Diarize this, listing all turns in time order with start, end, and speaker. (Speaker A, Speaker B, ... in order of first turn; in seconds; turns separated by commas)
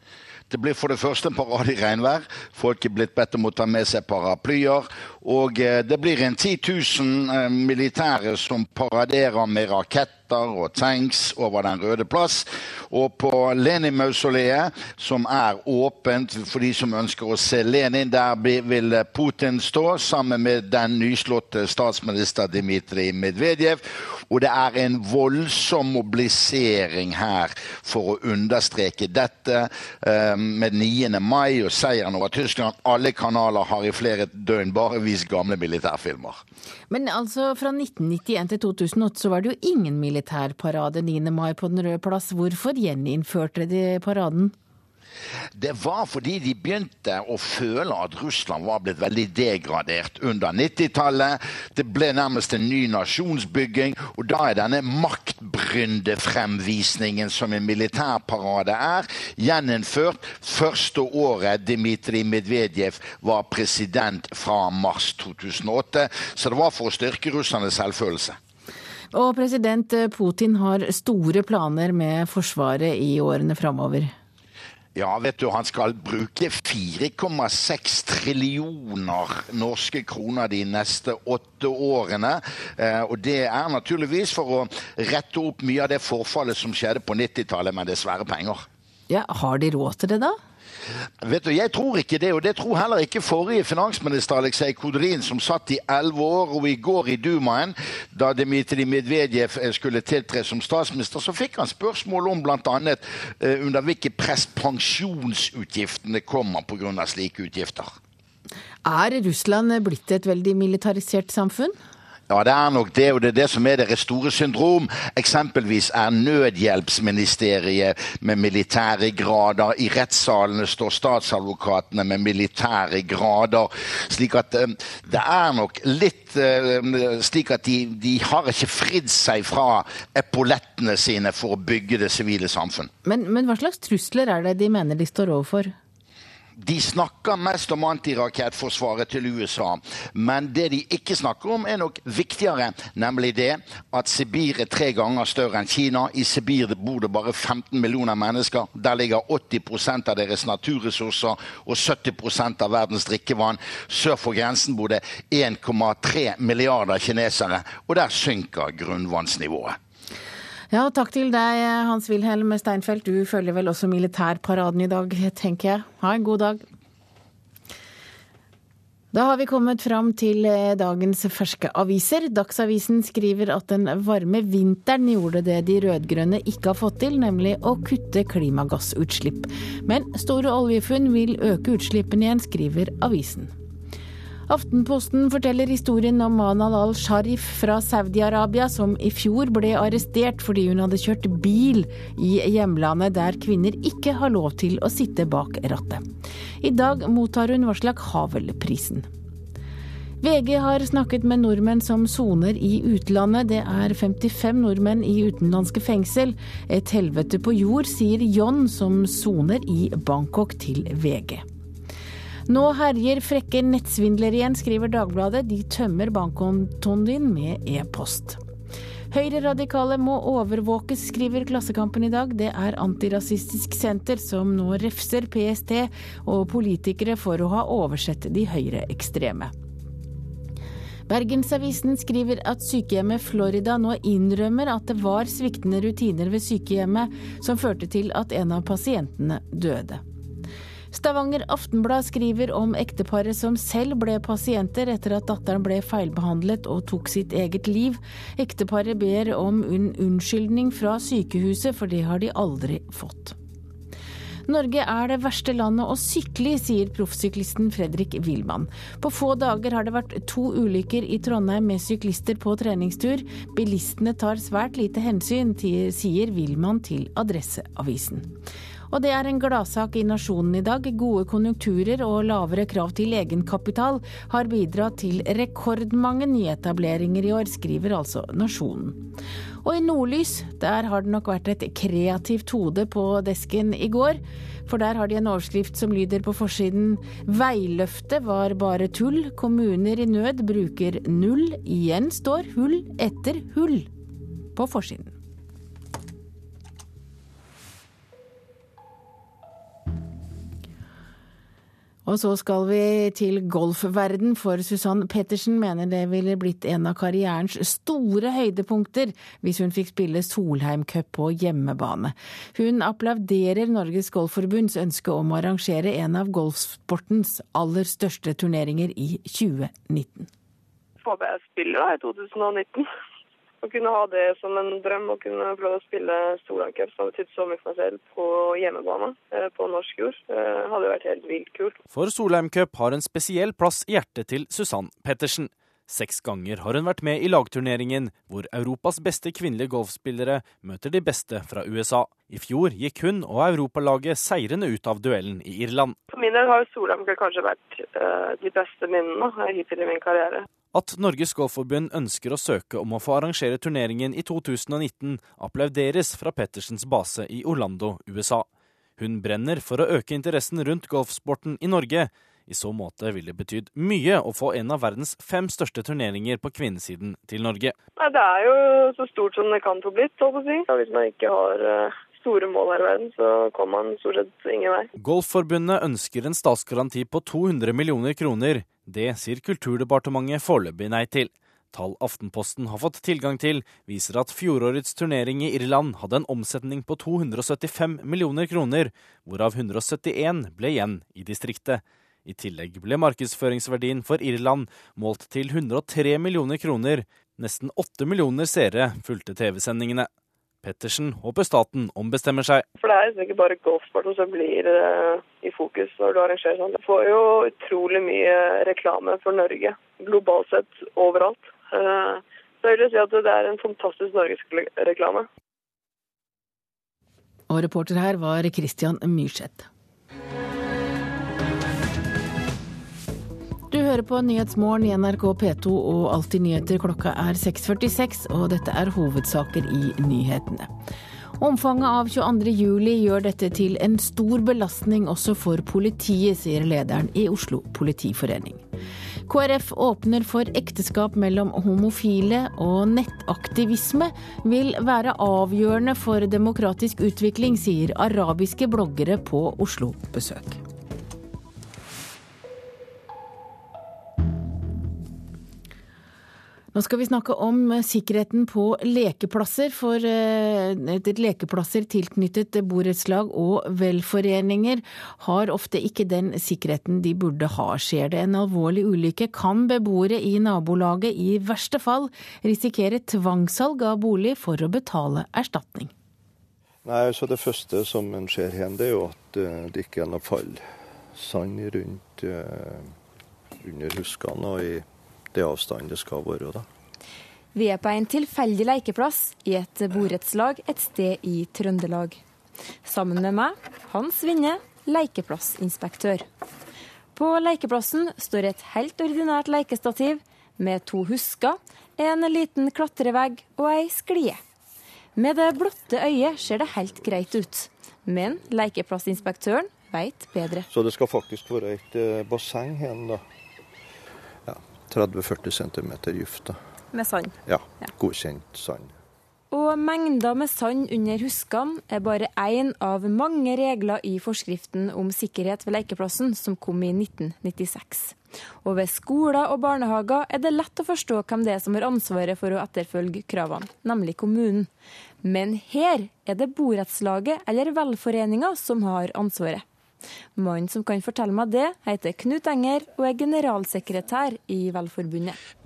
Speaker A: 0.5-36.4, Speaker B: 36.9-44.5, Speaker A: 45.6-68.4, Speaker B: 69.1-74.1, Speaker A: 75.0-88.6, Speaker B: 89.1-90.4, Speaker A: 91.2-107.9, Speaker B: 108.8-111.8, Speaker A: 112.3-132.9, Speaker B: 133.0-135.8, Speaker A: 136.6-159.8, Speaker B: 160.7-166.6, Speaker B: 169.1-183.5, Speaker B: 184.5-196.1, Speaker B: 196.6-199.1, Speaker B: 200.2-211.4, Speaker B: 212.5-218.4, Speaker B: 219.1-229.5, Speaker B: 231.1-240.0, Speaker B: 240.9-253.4, Speaker B: 254.5-268.4, Speaker B: 268.9-279.1, Speaker B: 279.6-293.9, Speaker B: 294.6-295.2, Speaker B: 302.1-320.3, Speaker C: 321.0-322.9, Speaker C: 323.6-331.8, Speaker D: 331.9-346.0, Speaker C: 346.1-350.4, Speaker D: 350.7-358.5, Speaker D: 359.0-367.7, Speaker C: 368.0-374.9, Speaker D: 375.0-400.1, Speaker D: 400.6-402.6, Speaker C: 402.8-415.3, Speaker B: 417.5-419.7, Speaker B: 423.7-430.7, Speaker B: 431.4-438.6, Speaker B: 439.3-450.6, Speaker B: 456.7-475.9, Speaker E: 476.8-480.6, Speaker E: 481.1-482.9, Speaker E: 483.6-486.7, Speaker F: 487.5-492.2, Speaker F: 492.9-496.2, Speaker F: 497.1-504.4, Speaker F: 505.2-510.7, Speaker E: 510.7-513.2, Speaker E: 514.5-516.6, Speaker E: 517.4-519.0, Speaker F: 519.5-534.7, Speaker F: 535.2-539.6, Speaker F: 540.4-545.4